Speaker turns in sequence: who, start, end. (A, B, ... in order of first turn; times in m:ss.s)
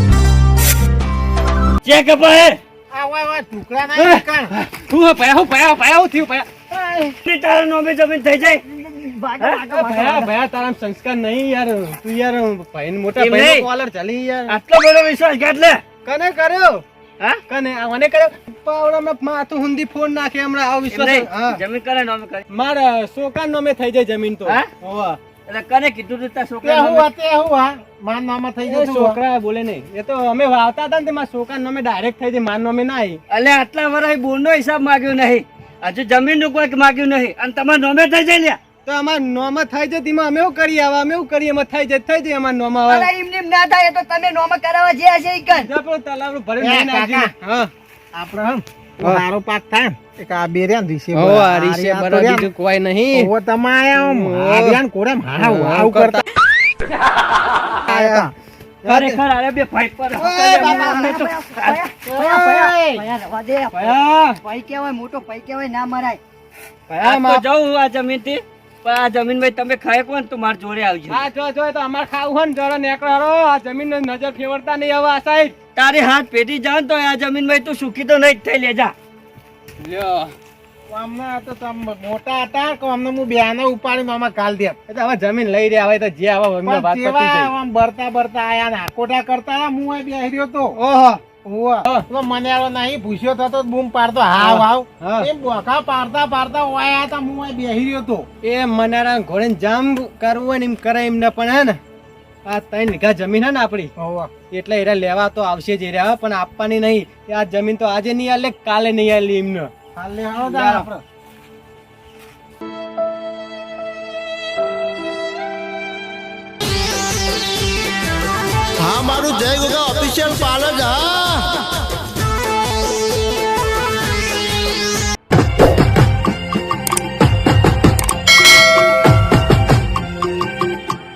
0:01.8-0:02.6 A
0:02.9-0:04.5 B
0:04.0-0:07.0 C
0:07.2-0:08.6 A
0:08.6-0:10.3 D
0:09.7-0:14.6 C
0:13.2-0:13.7 A
0:14.5-0:15.8 A
0:16.0-0:16.8 C
0:17.5-0:21.6 C
0:20.9-0:22.4 A
0:22.5-0:25.2 C
0:25.5-0:27.1 A
0:26.6-0:29.2 B
0:28.6-0:33.2 C
0:33.3-0:38.6 A
0:38.8-0:43.1 C
0:42.9-0:45.7 D
0:45.5-0:47.7 C
0:46.6-0:47.3 B
0:48.1-0:52.5 B
0:51.1-0:53.3 C
0:53.1-0:56.2 B
0:53.9-0:54.8 C
0:55.4-0:56.2 C
0:56.9-0:58.2 A
0:57.9-0:58.3 B
0:58.9-1:01.8 A
1:00.2-1:06.2 D
1:00.4-1:01.0 B
1:02.1-1:03.0 B
1:03.7-1:04.4 A
1:06.9-1:07.4 C
1:07.0-1:11.2 A
1:11.1-1:15.5 C
1:15.8-1:18.9 A
1:19.8-1:20.3 C
1:20.9-1:24.8 B
1:24.9-1:27.5 C
1:26.6-1:30.8 B
1:30.8-1:31.2 C
1:31.4-1:38.3 B
1:34.4-1:35.3 C
1:38.4-1:41.8 C
1:42.4-1:43.9 C
1:44.0-1:44.3 B
1:44.5-1:49.7 C
1:50.0-1:51.0 B
1:50.4-1:50.9 C
1:58.8-2:01.5 E